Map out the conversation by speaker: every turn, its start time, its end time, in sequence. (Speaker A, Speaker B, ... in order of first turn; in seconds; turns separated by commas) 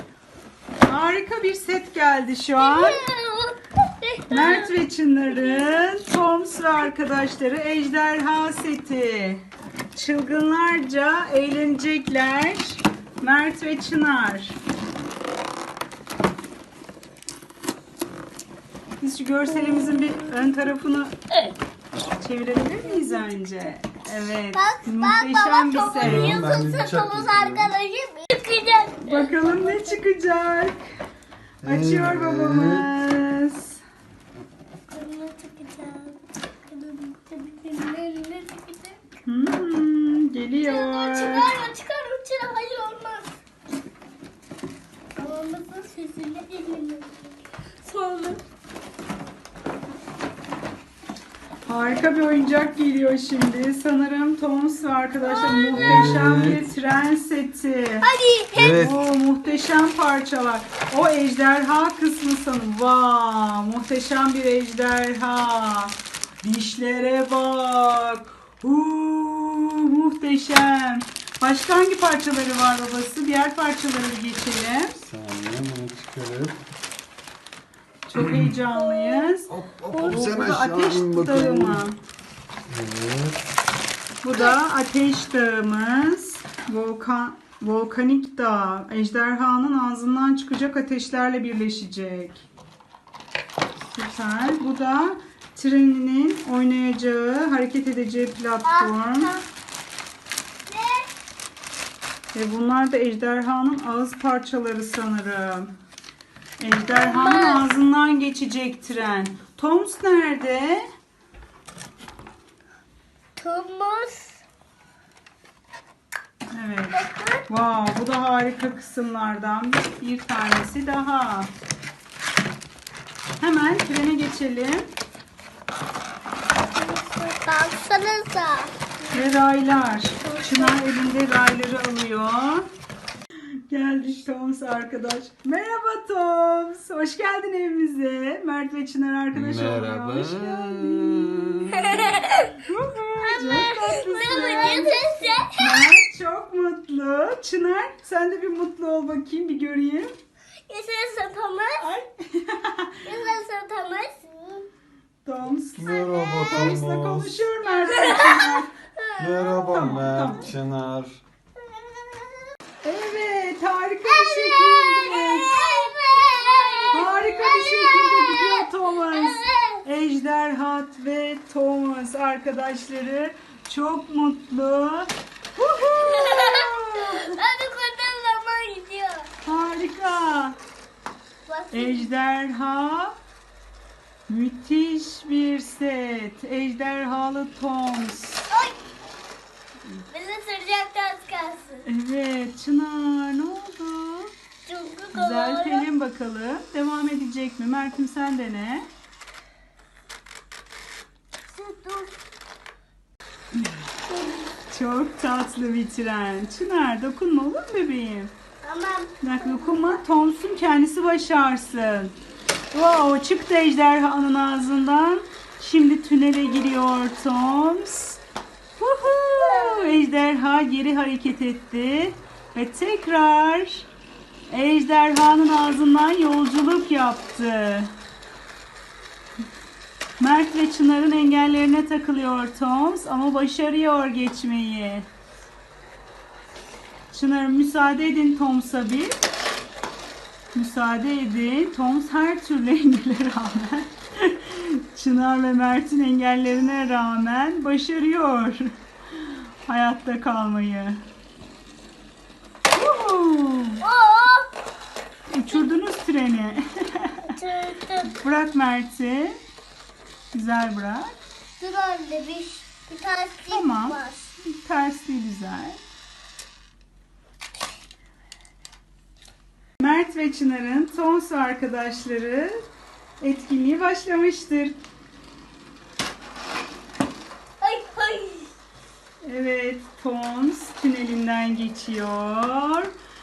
Speaker A: 0.8-3.0, Speaker B: 2.6-4.7, Speaker A: 4.3-9.4, Speaker B: 5.3-5.9, Speaker A: 9.9-14.6, Speaker A: 19.0-21.1, Speaker B: 19.5-20.6, Speaker A: 22.0-26.4, Speaker B: 24.5-29.9, Speaker C: 26.0-27.7, Speaker A: 29.0-30.8, Speaker C: 31.6-32.9, Speaker A: 31.6-33.8, Speaker B: 34.9-39.0, Speaker A: 39.2-41.5, Speaker B: 40.6-43.4, Speaker B: 45.1-47.3, Speaker B: 47.8-48.4, Speaker A: 51.6-58.1, Speaker B: 55.2-56.1, Speaker C: 55.7-56.6, Speaker B: 58.0-58.7, Speaker C: 58.5-59.0, Speaker A: 58.7-75.0, Speaker C: 75.0-76.6, Speaker A: 78.1-82.0, Speaker C: 78.2-78.5, Speaker C: 79.5-81.9, Speaker C: 82.7-83.4, Speaker A: 84.2-92.4, Speaker A: 93.9-99.3, Speaker B: 98.6-99.4, Speaker B: 100.7-101.1, Speaker A: 102.3-105.7, Speaker A: 106.6-110.9, Speaker B: 106.7-107.7, Speaker B: 113.4-114.4, Speaker A: 116.5-121.5, Speaker B: 116.9-117.5, Speaker A: 123.4-124.9, Speaker B: 126.7-129.3, Speaker A: 129.1-132.7, Speaker B: 130.2-130.8, Speaker A: 133.7-150.1, Speaker C: 139.3-141.8, Speaker B: 141.9-142.5, Speaker B: 143.2-145.5, Speaker B: 150.7-151.8, Speaker A: 151.8-153.0, Speaker B: 153.0-154.7, Speaker A: 155.2-158.7, Speaker C: 155.7-157.4, Speaker B: 155.9-156.7, Speaker B: 157.8-159.2, Speaker C: 159.2-161.2, Speaker A: 159.7-160.5, Speaker A: 162.8-165.5, Speaker B: 164.1-169.8, Speaker A: 166.9-177.2, Speaker B: 175.9-179.3, Speaker A: 179.4-180.6, Speaker B: 181.5-182.1, Speaker A: 181.7-183.1, Speaker A: 184.3-188.4, Speaker B: 188.5-188.8, Speaker B: 190.1-191.8, Speaker A: 191.8-194.3, Speaker B: 194.7-195.9, Speaker A: 195.1-198.9, Speaker B: 201.5-202.1, Speaker B: 204.1-204.5, Speaker A: 204.7-208.3, Speaker B: 208.6-210.0, Speaker A: 209.2-212.1, Speaker A: 212.7-218.2, Speaker A: 218.8-223.8, Speaker B: 219.4-220.0, Speaker A: 224.5-227.9, Speaker A: 230.2-235.1, Speaker A: 237.1-239.2, Speaker A: 240.5-251.0, Speaker A: 252.7-253.8, Speaker B: 253.8-254.5, Speaker A: 255.3-257.3, Speaker B: 257.3-258.1, Speaker A: 258.1-259.4, Speaker A: 260.3-261.1, Speaker B: 261.6-264.3, Speaker A: 263.5-265.8, Speaker A: 269.8-272.6, Speaker A: 273.2-274.8, Speaker B: 277.6-278.5, Speaker A: 279.2-282.9